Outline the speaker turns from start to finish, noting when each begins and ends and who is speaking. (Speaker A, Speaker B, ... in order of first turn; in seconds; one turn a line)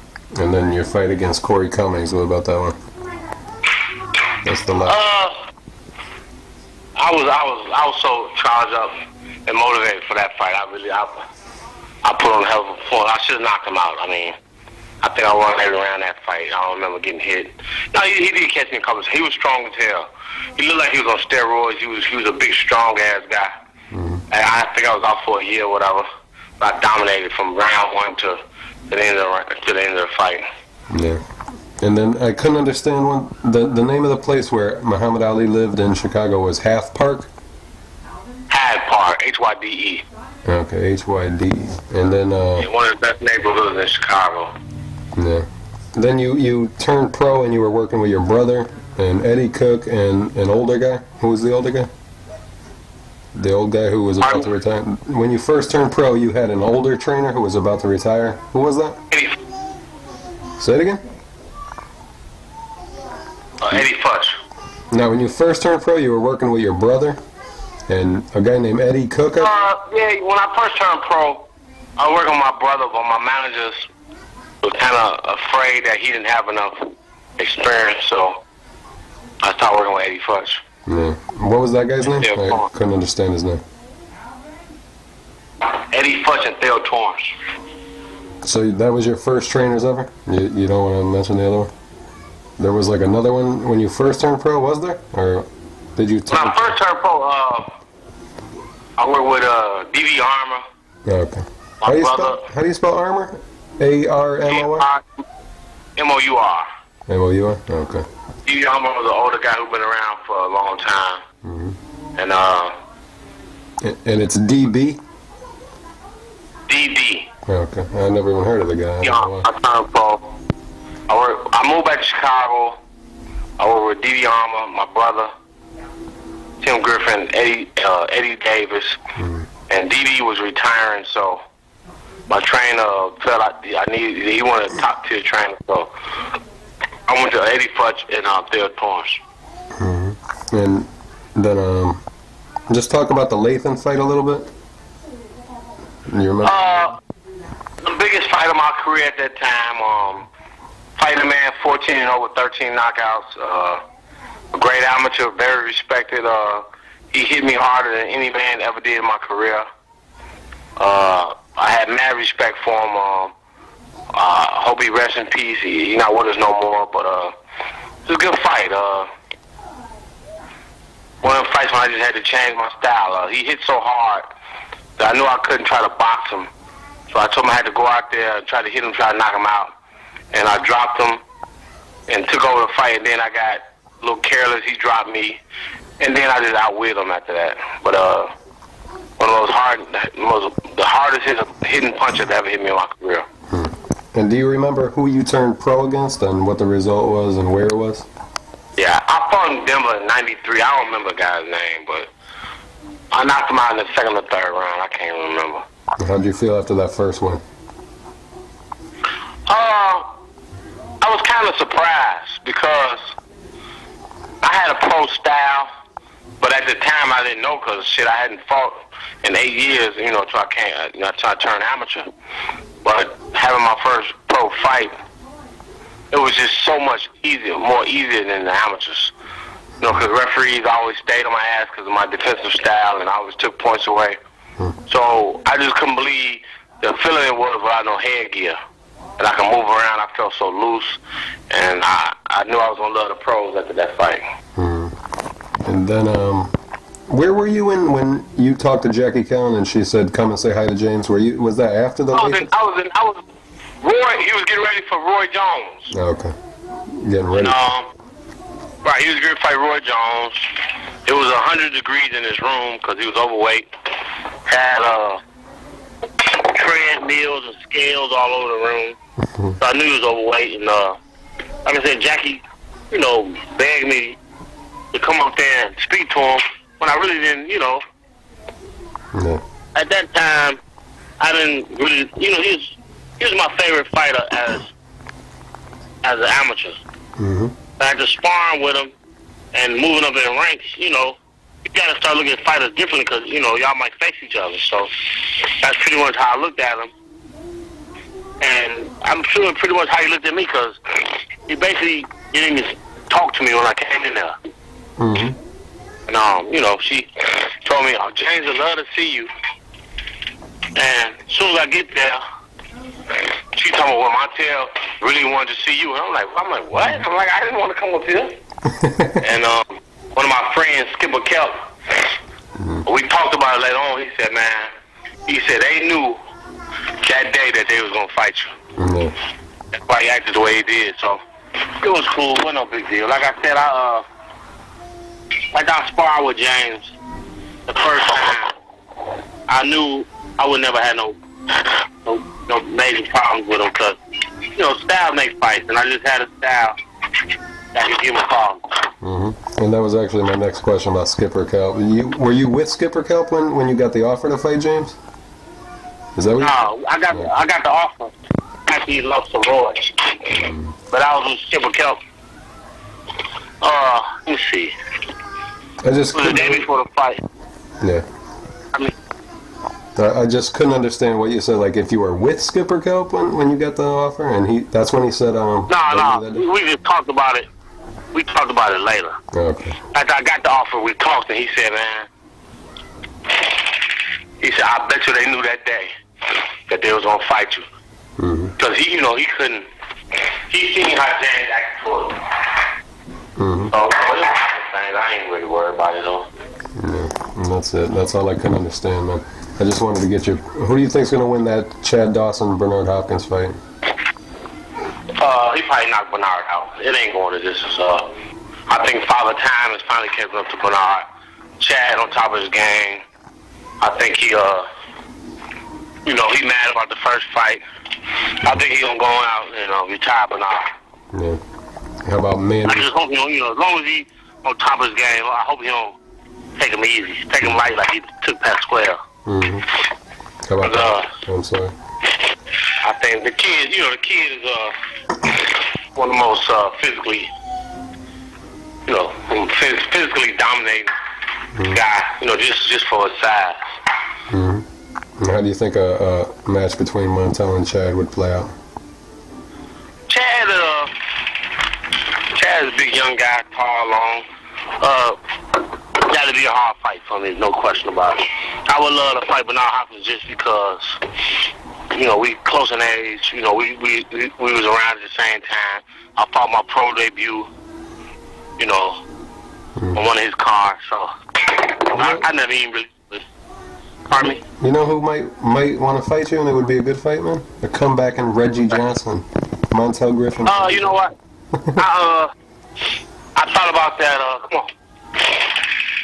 Speaker A: 0.3-2.8
Speaker A: 4.4-5.0
Speaker B: 4.8-5.4
Speaker B: 7.0-8.9
Speaker B: 9.5-11.3
Speaker B: 12.0-14.4
Speaker B: 15.0-23.5
Speaker A: 23.9-24.2
Speaker B: 24.3-26.1
Speaker B: 26.6-30.4
Speaker A: 30.9-31.2
Speaker A: 31.8-37.3
Speaker B: 38.5-40.0
Speaker A: 40.5-42.7
Speaker B: 42.6-44.5
Speaker A: 45.2-51.9
Speaker A: 53.3-59.0
Speaker B: 54.2-54.5
Speaker B: 59.1-59.4
Speaker A: 60.6-61.0
Speaker B: 63.6-64.4
Speaker A: 64.9-67.2
Speaker A: 67.9-69.5
Speaker B: 69.4-73.9
Speaker B: 74.6-78.4
Speaker B: 79.4-80.6
Speaker A: 80.9-83.6
Speaker B: 82.2-82.7
Speaker B: 85.6-87.3
Speaker A: 88.4-91.7
Speaker A: 92.6-96.7
Speaker B: 96.3-97.7
Speaker B: 99.0-100.6
Speaker A: 101.0-104.9
Speaker B: 101.8-102.5
Speaker B: 104.5-105.0
Speaker B: 106.0-106.7
Speaker A: 107.1-108.1
Speaker B: 108.5-111.2
Speaker A: 111.4-111.8
Speaker B: 112.2-112.8
Speaker A: 113.8-115.0
Speaker B: 116.7-117.3
Speaker A: 117.5-119.5
Speaker B: 119.0-120.3
Speaker B: 121.1-122.8
Speaker B: 123.6-125.3
Speaker B: 126.6-129.0
Speaker A: 129.2-129.5
Speaker B: 129.7-131.4
Speaker B: 132.3-135.9
Speaker B: 137.1-139.2
Speaker A: 139.8-142.0
Speaker A: 142.7-144.5
Speaker A: 146.1-146.7
Speaker B: 146.4-147.0
Speaker B: 147.8-150.3
Speaker B: 151.0-153.8
Speaker B: 154.5-159.7
Speaker B: 160.8-163.3
Speaker B: 164.1-167.3
Speaker B: 168.1-169.1
Speaker B: 171.2-174.3
Speaker B: 175.0-176.5
Speaker B: 177.1-179.7
Speaker B: 180.3-181.2
Speaker B: 182.1-185.4
Speaker B: 186.0-188.3
Speaker B: 189.2-193.3
Speaker A: 193.5-198.1
Speaker B: 198.8-202.1
Speaker B: 203.1-205.6
Speaker A: 206.0-207.4
Speaker B: 209.5-210.1
Speaker B: 211.0-213.1
Speaker B: 214.4-215.7
Speaker B: 216.4-222.1
Speaker B: 222.8-224.9
Speaker B: 226.1-229.1
Speaker B: 229.8-234.2
Speaker B: 234.9-238.6
Speaker B: 239.2-241.0
Speaker B: 241.5-244.2
Speaker A: 244.6-244.9
Speaker A: 245.6-246.6
Speaker A: 247.1-252.5
Speaker B: 252.1-253.2
Speaker B: 253.8-255.9
Speaker A: 255.9-256.4
Speaker A: 256.9-257.6
Speaker B: 257.4-257.9
Speaker B: 258.8-260.5
Speaker B: 261.1-263.7
Speaker B: 264.5-265.2
Speaker B: 266.2-269.0
Speaker A: 269.2-269.6
Speaker B: 269.6-271.0
Speaker B: 271.6-274.2
Speaker B: 274.9-277.8
Speaker A: 279.1-279.4
Speaker B: 279.8-280.6
Speaker B: 281.2-284.7
Speaker B: 286.0-286.8
Speaker A: 287.2-287.5
Speaker B: 287.8-288.9
Speaker B: 289.5-296.9
Speaker B: 298.4-304.4
Speaker A: 305.0-305.4
Speaker B: 306.1-309.3
Speaker B: 310.8-312.2
Speaker B: 313.4-318.4
Speaker A: 318.7-319.2
Speaker B: 319.2-321.6
Speaker A: 322.6-322.8
Speaker B: 322.9-324.7
Speaker B: 325.3-326.2
Speaker B: 327.0-328.5
Speaker A: 328.8-329.1
Speaker B: 329.7-334.0
Speaker B: 335.5-337.0
Speaker B: 337.7-338.6
Speaker B: 339.5-344.0
Speaker B: 344.5-346.8
Speaker B: 347.7-348.6
Speaker A: 349.0-355.0
Speaker A: 356.1-356.6
Speaker B: 356.4-358.1
Speaker B: 358.7-362.0
Speaker A: 360.3-360.8
Speaker B: 363.6-364.7
Speaker A: 365.8-366.6
Speaker B: 366.1-367.2
Speaker A: 367.8-368.1
Speaker A: 370.0-376.4
Speaker B: 375.7-377.5
Speaker B: 378.1-379.2
Speaker A: 379.3-379.8
Speaker B: 379.9-382.1
Speaker B: 384.4-385.9
Speaker B: 386.7-387.6
Speaker A: 388.2-388.5
Speaker B: 388.6-389.7
Speaker B: 390.5-392.2
Speaker A: 393.4-393.7
Speaker B: 393.7-396.3
Speaker A: 396.8-403.6
Speaker B: 405.2-408.1
Speaker B: 408.7-411.1
Speaker B: 411.6-413.0
Speaker B: 413.8-414.7
Speaker B: 416.1-417.6
Speaker B: 418.4-420.7
Speaker A: 421.1-421.4
Speaker A: 422.0-422.9
Speaker B: 422.6-426.0
Speaker B: 426.6-429.0
Speaker A: 429.3-429.7
Speaker A: 430.5-431.7
Speaker B: 430.6-431.2
Speaker B: 432.8-437.3
Speaker B: 438.9-440.9
Speaker B: 441.7-443.8
Speaker A: 444.3-444.7
Speaker A: 445.2-448.5
Speaker B: 450.1-450.9
Speaker B: 452.3-454.2
Speaker B: 454.8-455.2
Speaker B: 455.9-461.0
Speaker B: 461.9-467.5
Speaker B: 468.6-469.0
Speaker B: 469.9-473.2
Speaker A: 471.9-472.3
Speaker B: 474.1-474.4
Speaker A: 474.2-481.0
Speaker B: 480.4-481.1
Speaker A: 481.5-481.8
Speaker B: 481.7-482.3
Speaker B: 483.4-484.7
Speaker B: 485.3-485.7